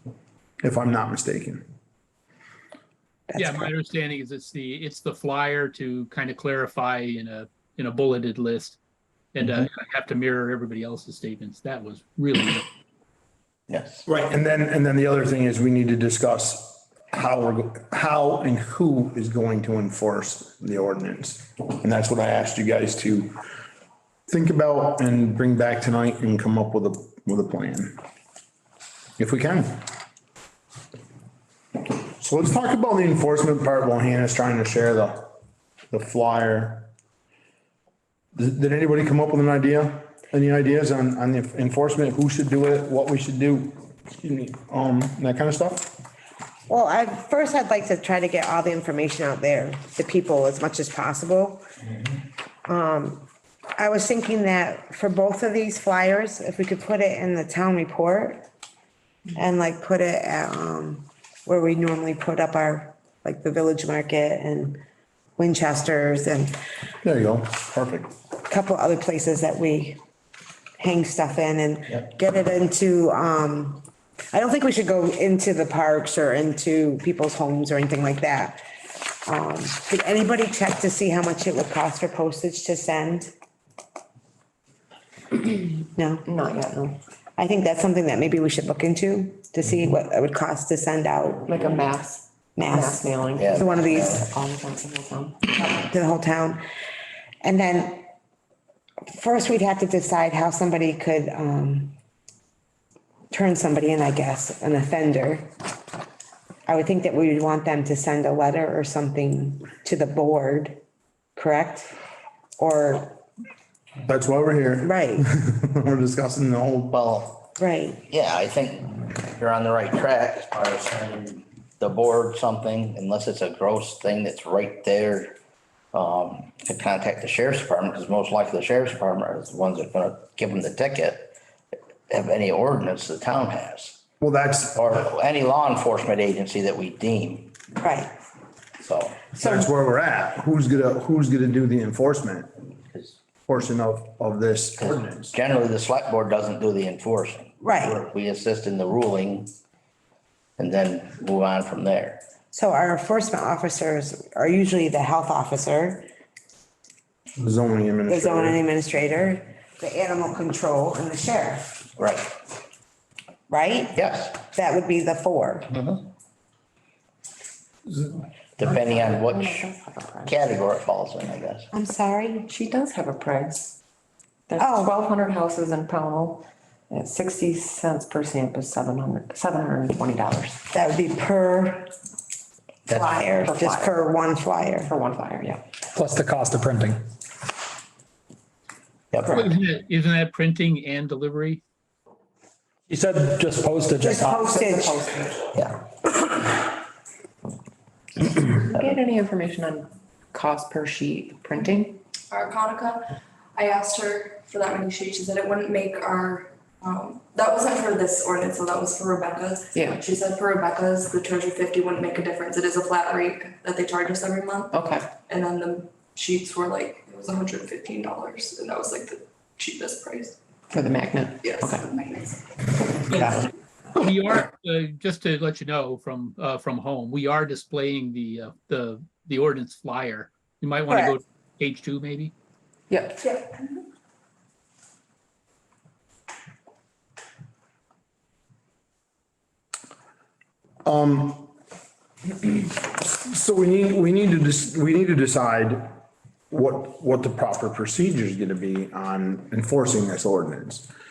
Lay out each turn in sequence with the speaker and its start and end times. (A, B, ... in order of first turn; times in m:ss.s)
0:00.6-0:01.6 A
0:03.3-0:03.7 B
0:03.4-0:08.8 C
0:09.3-0:12.6 C
0:13.7-0:14.0 D
0:14.0-0:23.4 A
0:24.3-0:28.0 A
0:29.2-0:29.8 A
0:32.2-0:35.3 A
0:35.9-0:36.9 A
0:38.4-0:45.9 A
0:46.7-0:51.7 B
0:52.7-0:58.5 B
0:59.3-1:04.8 B
1:05.4-1:06.6 B
1:07.0-1:08.1 A
1:08.5-1:10.0 B
1:10.8-1:18.6 B
1:19.2-1:23.3 B
1:25.4-1:26.2 B
1:26.2-1:27.0 E
1:27.4-1:31.6 B
1:31.4-1:35.4 E
1:32.6-1:34.2 B
1:33.4-1:34.2 D
1:35.5-1:36.6 B
1:37.4-1:38.1 B
1:39.1-1:42.0 B
1:43.3-1:45.5 B
1:46.7-1:50.8 B
1:51.4-1:51.9 B
1:52.6-1:53.2 B
1:54.0-1:57.0 A
1:54.8-1:55.2 B
1:56.9-1:57.4 D
1:57.6-1:58.0 B
1:58.1-2:05.4 D
2:05.9-2:11.3 D
2:12.1-2:14.0 D
2:14.2-2:14.8 A
2:14.8-2:17.5 D
2:17.8-2:18.1 B
2:18.8-2:19.2 D
2:19.3-2:22.6 A
2:19.4-2:19.7 B
2:23.5-2:25.3 A
2:24.8-2:29.5 D
2:27.6-2:28.0 B
2:30.6-2:32.2 D
2:32.5-2:36.1 B
2:37.4-2:38.6 A
2:38.1-2:41.6 B
2:42.0-2:42.3 D
2:43.5-2:45.7 B
2:43.9-2:44.4 D
2:45.7-2:46.0 D
2:48.6-2:49.7 D
2:48.6-2:50.4 E
2:50.2-2:51.7 D
2:51.7-2:52.5 B
2:52.5-2:53.8 E
2:54.5-3:00.6 E
2:54.6-2:54.9 B
3:00.7-3:01.9 B
3:02.9-3:03.2 D
3:02.9-3:04.9 B
3:03.4-3:03.9 E
3:04.8-3:05.6 E
3:05.9-3:07.0 F
3:09.1-3:09.4 D
3:09.3-3:11.6 C
3:12.9-3:14.5 F
3:14.0-3:14.9 B
3:14.2-3:15.4 E
3:15.5-3:15.8 D
3:18.4-3:22.0 E
3:22.3-3:23.0 G
3:23.5-3:34.8 G
3:29.7-3:30.0 E
3:34.7-3:35.1 E
3:35.3-3:40.4 G
3:40.7-3:41.9 E
3:41.4-3:42.4 G
3:43.1-3:43.5 E
3:44.0-3:52.3 C
3:50.9-3:51.2 B
3:52.9-3:53.4 E
4:00.8-4:01.5 A
4:02.4-4:05.9 A
4:06.5-4:10.9 A